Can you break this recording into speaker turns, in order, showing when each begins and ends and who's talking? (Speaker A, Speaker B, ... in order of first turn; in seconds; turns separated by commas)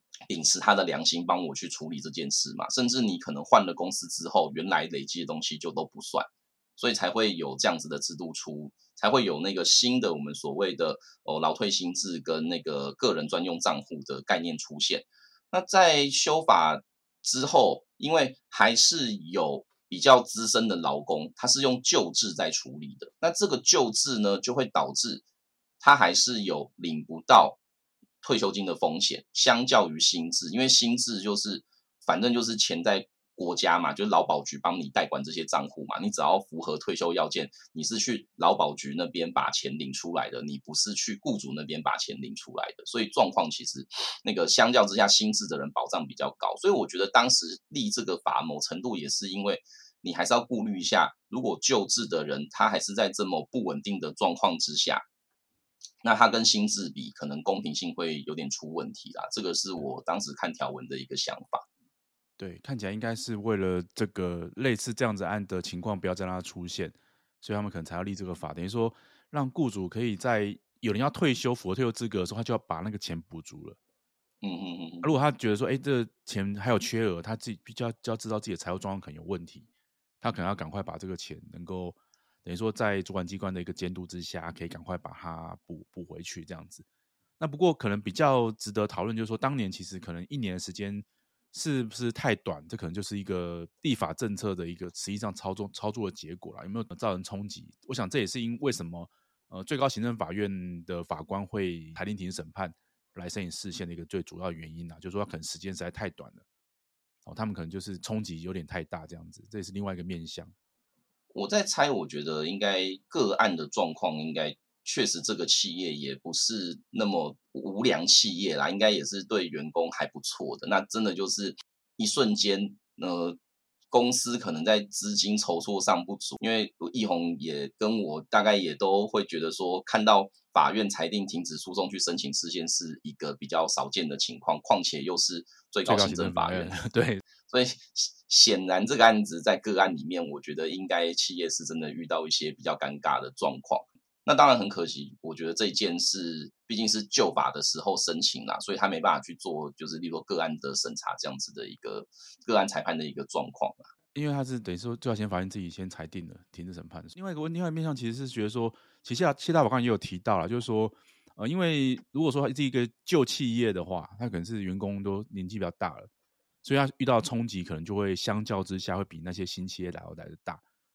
Speaker A: 0.3-25.2, Speaker A: 25.8-27.6, Speaker A: 28.2-55.0, Speaker A: 56.0-61.6, Speaker B: 62.4-73.8, Speaker A: 74.4-75.1, Speaker B: 75.0-79.7, Speaker B: 80.2-86.9, Speaker B: 87.4-106.4, Speaker B: 107.2-110.5, Speaker A: 111.3-123.4, Speaker A: 123.9-136.8, Speaker B: 135.8-137.2, Speaker A: 137.4-153.9, Speaker B: 154.1-166.1, Speaker B: 166.6-170.6